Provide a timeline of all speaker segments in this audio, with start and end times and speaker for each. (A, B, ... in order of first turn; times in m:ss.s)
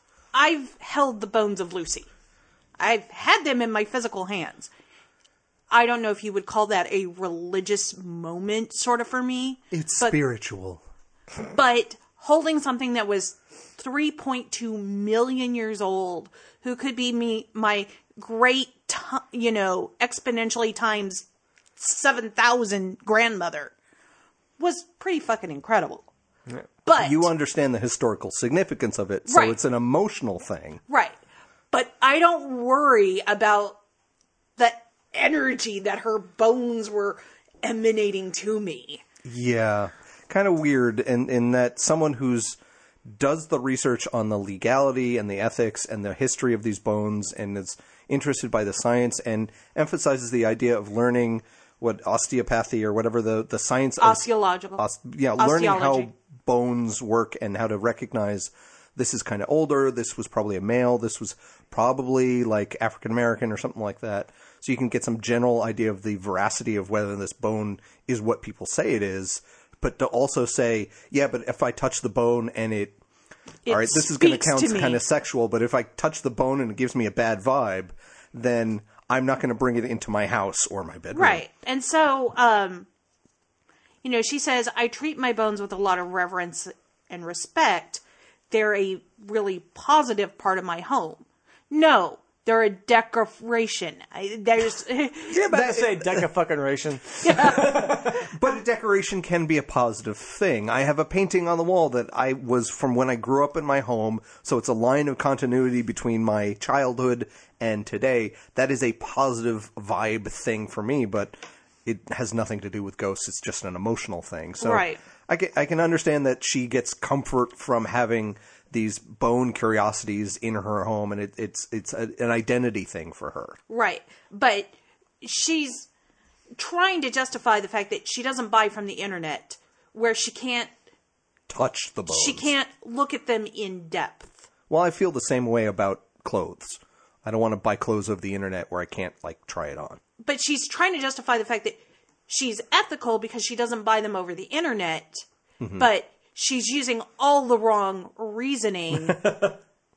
0:00.3-0:02.1 A
0:02.8-0:04.7 A
0:05.7-0:10.2 A
0:09.7-0:10.8 B
0:11.4-0:21.2 A
0:21.8-0:23.7 A
0:24.6-0:26.1 A
0:26.8-0:27.3 A
0:26.9-0:30.8 B
0:29.3-0:29.6 A
0:30.9-0:31.2 A
0:31.7-0:33.8 A
0:34.6-0:39.0 A
0:39.2-1:13.0 B
0:54.0-0:54.8 A
0:55.4-0:56.1 A
1:13.6-1:15.0 A
1:13.6-1:21.4 B
1:21.1-1:22.9 A
1:24.0-1:35.4 A
1:35.3-1:38.2 C
1:35.4-1:36.2 B
1:37.2-1:37.9 A
1:37.4-2:03.6 B
1:54.6-1:55.0 A
2:03.7-2:04.7 A
2:05.2-2:05.9 A
2:06.6-2:10.7 A
2:11.5-2:12.5 B
2:12.1-2:14.5 A
2:14.7-2:20.0 B
2:20.2-2:25.2 A
2:25.6-2:25.8 B
2:25.8-2:29.3 A
2:28.9-2:29.6 B